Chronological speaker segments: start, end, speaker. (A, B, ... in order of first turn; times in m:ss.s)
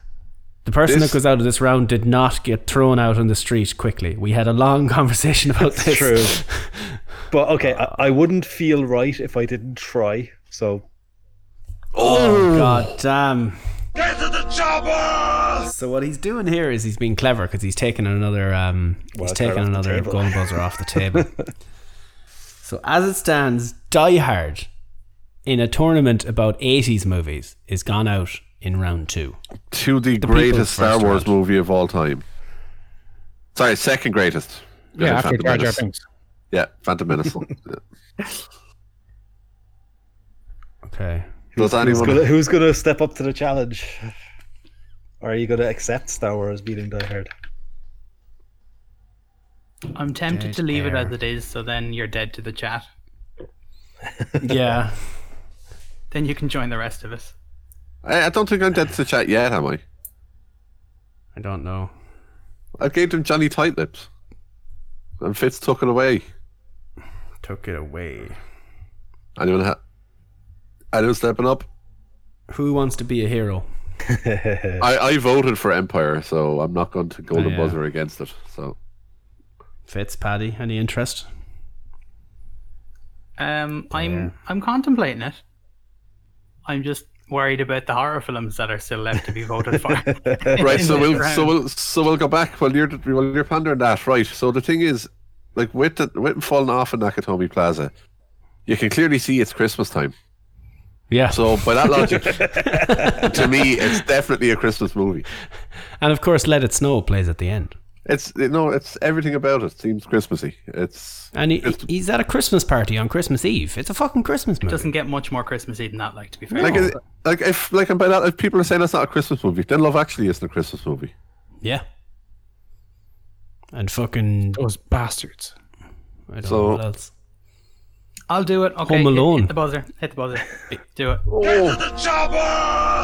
0:00.6-0:07.0 A
0:00.9-0:01.2 B
0:05.6-0:06.4 C
0:07.3-0:10.8 C
0:07.6-0:07.9 A
0:11.9-0:12.9 B
0:12.0-0:13.6 A
0:15.5-0:21.3 A
0:19.2-0:21.5 C
0:22.6-0:24.7 A
0:25.5-0:29.4 A
0:29.7-0:32.2 B
0:30.2-0:31.3 A
0:33.6-0:35.8 B
0:35.0-0:36.0 D
0:36.5-0:38.4 B
0:40.8-0:42.2 A
0:41.6-0:42.3 B
0:41.6-0:44.1 C
0:45.2-0:47.3 C
0:49.9-0:52.9 E
0:50.3-0:51.1 A
0:54.4-0:55.2 A
0:56.1-0:57.3 E
0:58.0-0:59.8 B
1:01.4-1:01.9 A
1:02.8-1:04.1 B
1:05.2-1:06.2 B
1:07.4-1:08.4 A
1:09.4-1:09.8 B
1:10.9-1:11.7 B
1:12.5-1:13.7 A
1:14.1-1:14.8 C
1:14.8-1:18.8 B
1:17.3-1:17.8 A
1:19.9-1:21.3 A
1:23.4-1:25.4 E
1:23.9-1:24.3 A
1:26.7-1:31.5 E
1:29.9-1:30.8 C
1:30.6-1:37.9 B
1:38.7-1:40.1 B
1:41.1-1:43.7 A
1:41.3-1:45.3 B
1:42.4-1:43.2 C
1:46.0-1:47.8 A
1:48.1-1:51.8 B
1:51.3-1:54.9 A
1:54.7-1:57.0 E
1:56.5-1:56.9 A
1:56.6-2:01.1 B
2:03.7-2:04.6 A
2:04.6-2:05.5 D
2:06.3-2:07.1 A
2:06.4-2:06.8 B
2:08.3-2:11.2 E
2:08.8-2:09.5 A
2:11.3-2:12.0 B